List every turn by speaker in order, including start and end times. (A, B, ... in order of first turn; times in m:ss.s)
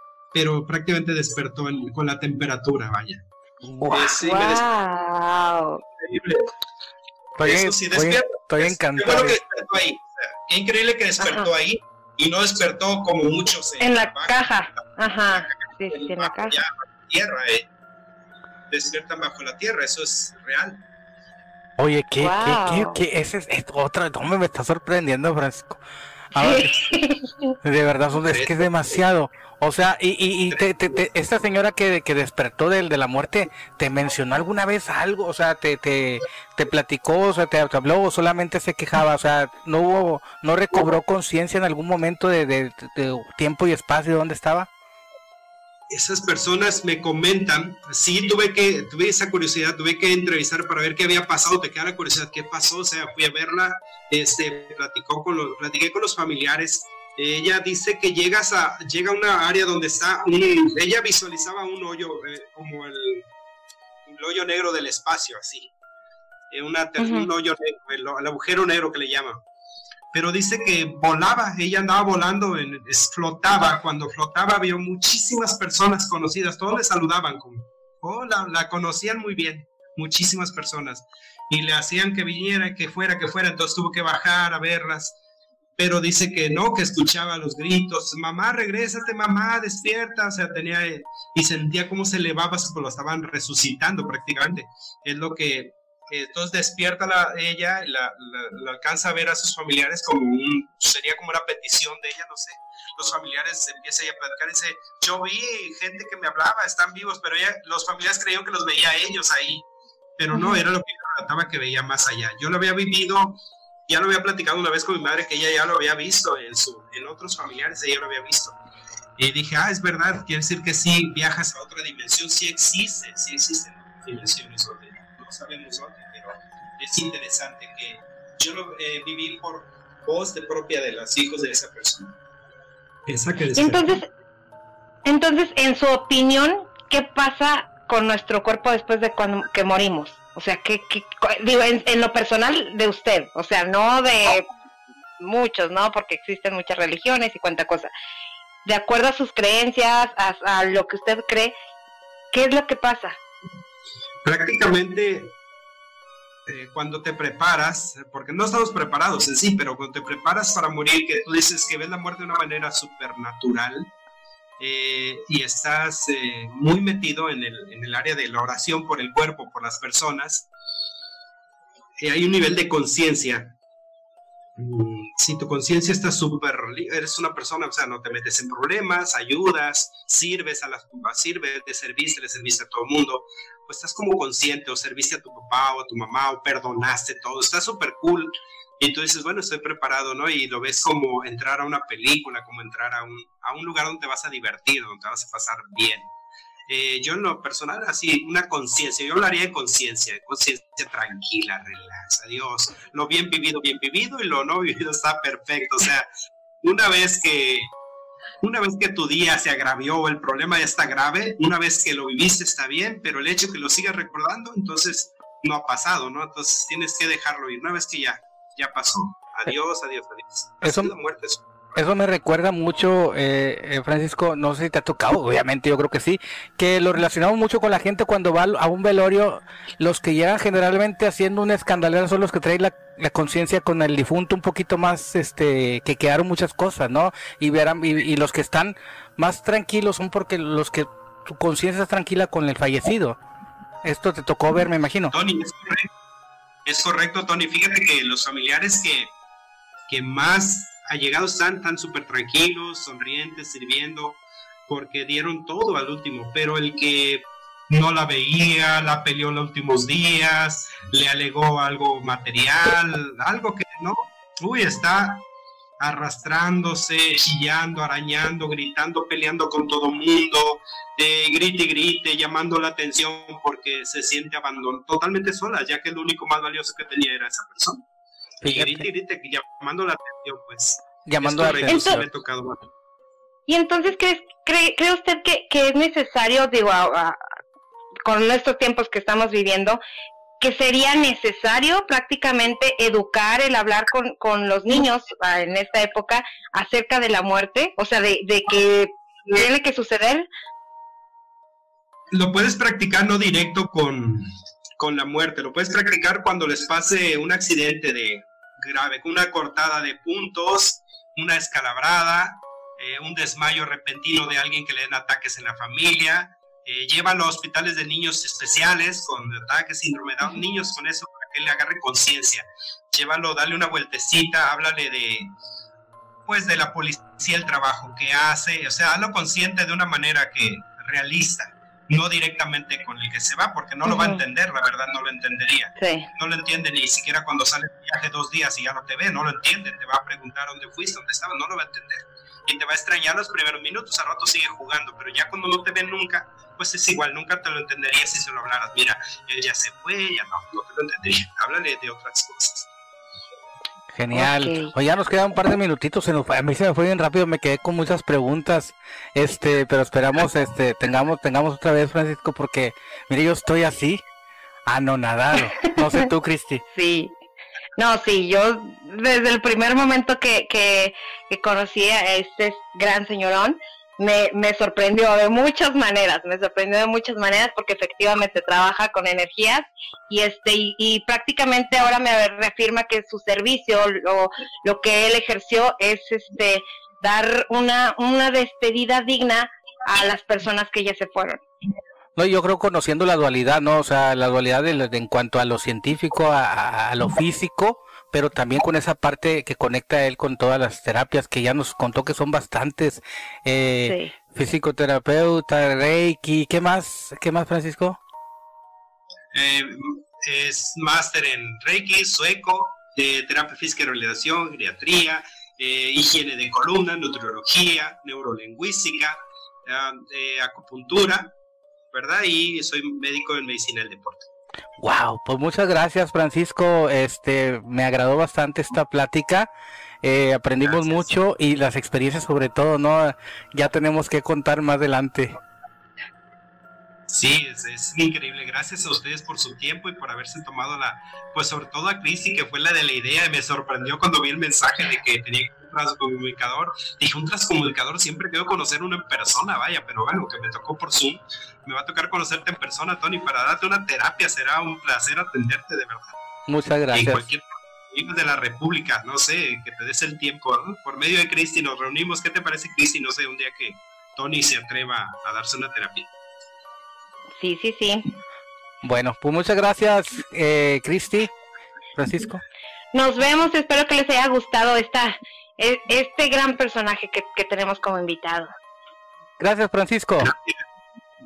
0:00.3-0:03.2 A
0:03.6-0:04.1 B
0:03.9-0:04.7 A
0:04.0-0:05.8 C
0:06.0-0:06.5 A
0:07.4-0:09.4 B
0:07.4-0:17.7 A
0:11.2-0:11.5 C
0:13.8-0:16.6 C
0:18.7-0:20.8 A
0:21.8-0:25.8 B
0:22.2-0:23.0 C
0:26.3-0:26.7 B
0:26.4-0:27.5 C
0:27.6-0:44.7 B
0:28.2-0:28.6 A
0:30.5-0:31.0 A
0:45.9-1:03.3 A
1:04.0-1:05.7 A
1:06.5-1:09.4 A
1:07.0-1:07.3 C
1:10.1-1:25.2 A
1:25.8-1:49.7 A
1:50.2-1:58.6 A
1:50.3-1:50.6 C
1:59.2-2:12.1 A
2:13.1-2:14.0 A
2:13.6-2:14.1 C
2:15.0-2:24.5 C
2:25.2-2:27.9 C
2:28.6-2:31.5 C
2:32.3-2:33.2 C
2:34.2-2:35.4 A
2:36.5-2:43.9 A
2:44.6-2:50.5 A
2:52.0-2:53.5 A
2:54.6-3:16.1 A
3:16.7-3:26.1 A
3:26.6-3:27.7 A
3:28.4-3:41.6 A
3:40.6-3:40.9 B
3:41.8-4:03.2 B
4:03.8-4:05.1 B
4:05.1-4:05.9 A
4:06.7-4:09.1 A
4:09.9-4:25.2 A
4:25.8-4:37.8 A
4:38.4-4:38.9 B
4:38.4-4:42.7 A
4:41.1-4:42.1 B
4:41.7-4:42.0 C
4:43.5-4:47.2 C
4:48.1-4:49.8 C
4:50.4-5:00.3 C
5:02.1-5:04.2 A
5:04.8-5:25.3 A
5:26.3-5:52.7 A
5:33.8-5:34.2 C
5:35.8-5:36.1 C
5:53.9-6:04.0 B
5:54.1-5:54.7 C
6:04.7-6:06.6 B
6:05.6-6:06.0 C
6:06.7-6:07.1 C
6:07.8-6:31.4 C
6:32.2-6:48.0 B
6:43.8-6:44.1 C
6:49.3-7:01.3 A
7:01.9-7:04.3 A
7:04.8-7:09.5 B
7:10.0-7:15.4 B
7:10.6-7:11.1 A
7:17.1-7:36.2 A
7:36.5-7:37.3 B
7:36.9-7:46.1 A
7:47.4-7:48.1 C
7:48.8-7:51.4 B
7:52.0-7:52.4 B
7:52.9-7:58.5 C
7:59.4-8:00.3 B
8:00.2-8:00.6 A